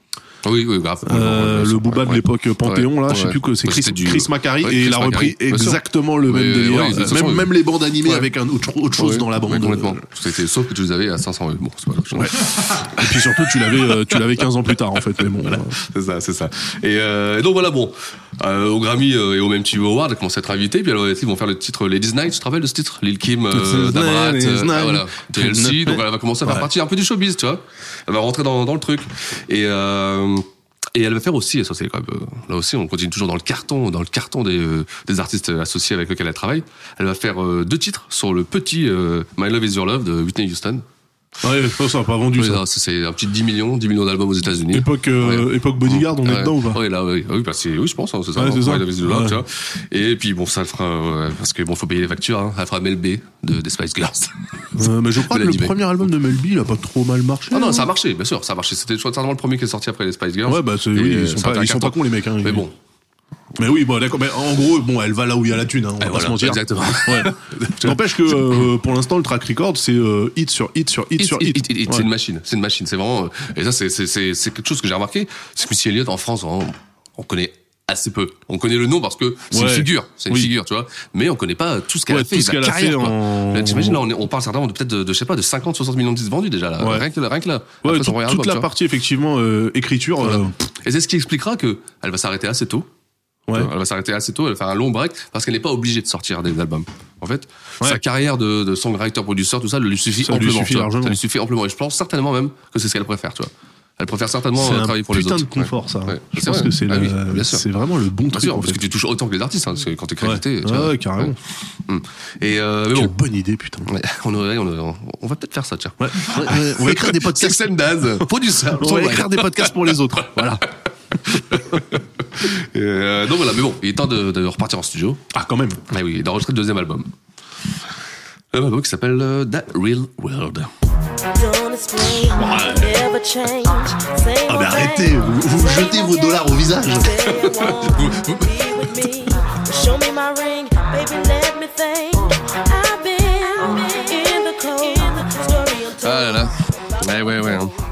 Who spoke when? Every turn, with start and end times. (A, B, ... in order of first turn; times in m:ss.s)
0:00.4-0:08.3 A
0:01.0-0:10.0 B
0:09.0-0:12.4 A
0:12.1-0:15.8 B
0:13.0-0:14.2 A
0:15.4-0:40.8 A
0:23.5-0:26.7 B
0:41.4-0:42.6 B
0:42.4-0:55.8 A
0:44.7-0:46.8 B
0:48.4-0:49.4 B
0:54.8-0:57.9 B
0:57.5-1:02.7 A
1:00.5-1:02.7 B
1:03.6-1:12.1 B
1:06.0-1:08.7 A
1:11.2-1:28.7 A
1:19.5-1:20.5 B
1:22.1-1:24.1 B
1:26.8-1:27.1 B
1:27.8-1:30.5 B
1:30.2-1:32.9 A
1:33.5-1:47.7 A
1:40.2-1:41.2 B
1:44.6-1:48.9 B
1:48.3-1:53.1 A
1:50.2-1:51.4 B
1:52.9-1:53.9 B
1:53.9-2:00.4 A
1:56.0-2:00.7 B
2:01.3-2:05.2 A
2:01.5-2:01.8 B
2:05.3-2:05.8 B
2:05.9-2:07.1 A
2:08.5-2:10.7 A
2:11.3-2:27.7 C
2:12.3-2:12.9 B
2:14.5-2:17.2 B
2:17.4-2:18.4 A
2:26.0-2:27.7 A